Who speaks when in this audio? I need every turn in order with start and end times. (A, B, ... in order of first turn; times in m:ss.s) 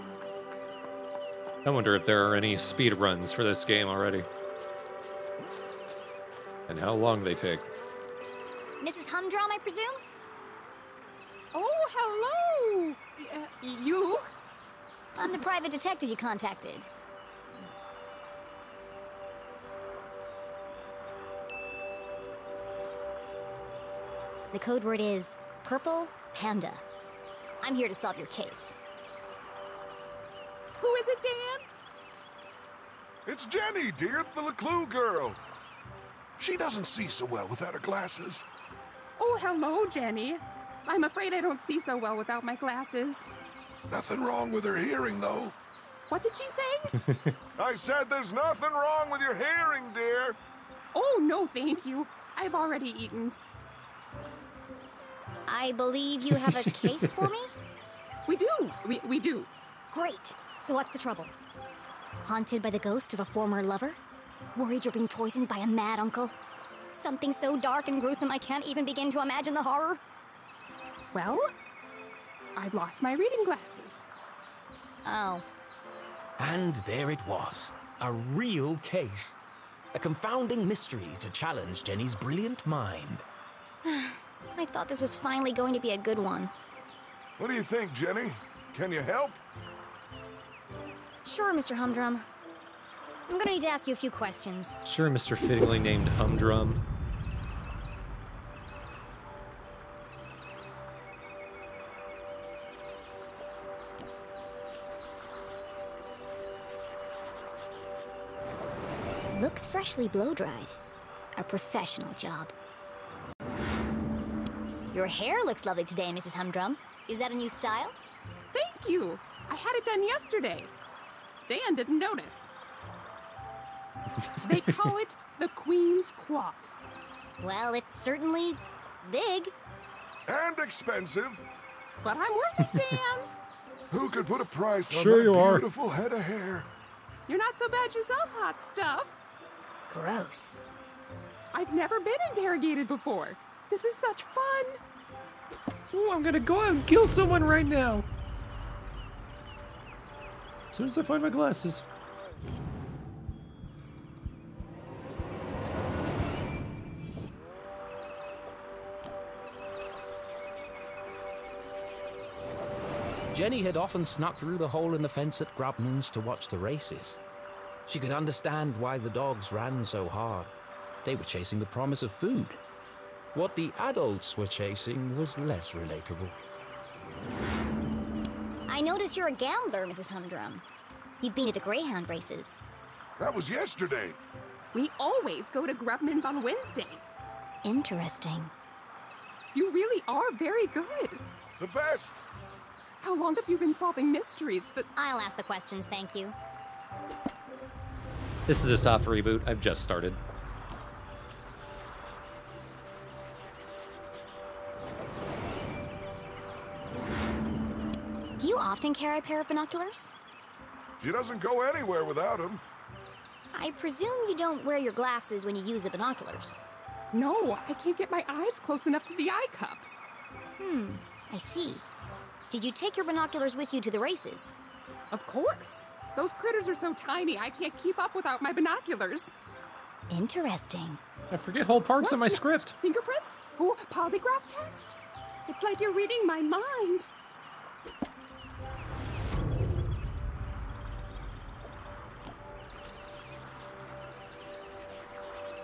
0:01.6-0:04.3 A
0:06.7-0:07.6 A
0:08.8-0:10.0 B
0:11.5-0:14.2 C
0:15.2-0:16.9 B
0:24.5-0:26.8 B
0:27.6-0:28.7 B
0:30.8-0:31.6 C
0:33.2-0:35.4 D
0:36.4-0:38.4 D
0:39.2-0:43.3 C
0:43.9-0:45.5 D
0:46.1-0:46.9 C
0:47.6-0:50.4 D
0:50.9-0:53.4 C
0:55.5-0:57.5 B
0:58.3-0:59.5 C
0:59.9-1:01.3 B
1:02.2-1:04.0 B
1:04.6-1:06.3 B
1:06.9-1:10.0 B
1:11.1-1:11.5 C
1:12.6-1:14.1 C
1:15.0-1:15.4 B
1:16.4-1:19.3 E
1:19.9-1:23.2 E
1:23.8-1:26.5 B
1:27.4-1:29.4 D
1:31.2-1:32.2 B
1:33.3-1:34.8 B
1:34.8-1:36.8 A
1:49.3-1:50.8 B
1:51.4-1:52.5 B
1:54.9-1:58.0 B
1:58.5-2:00.7 C
2:01.5-2:02.5 C
2:04.4-2:06.8 C
2:07.4-2:09.5 B
2:10.3-2:11.4 D
2:12.0-2:13.3 C
2:13.9-2:16.7 D
2:14.9-2:15.6 A
2:17.3-2:19.1 C
2:19.9-2:20.6 B
2:21.5-2:24.8 C
2:25.9-2:28.0 A
2:30.7-2:31.8 A
2:43.3-2:47.2 E
2:47.8-2:50.5 E
2:51.0-2:52.6 E
2:53.3-2:56.4 E
2:58.7-3:00.6 B
3:01.2-3:02.6 B
3:03.2-3:04.2 D
3:04.7-3:07.0 C
3:07.6-3:08.5 B
3:09.5-3:11.2 C
3:11.6-3:12.2 D
3:13.0-3:14.9 C
3:14.9-3:16.3 B
3:18.5-3:20.2 A
3:28.4-3:30.1 B
3:31.0-3:32.6 D
3:33.5-3:36.6 B
3:37.1-3:40.0 C
3:40.6-3:41.8 B
3:42.5-3:44.5 B
3:45.1-3:49.3 C
3:50.1-3:51.0 B
3:51.3-3:52.7 A
3:52.0-3:57.1 C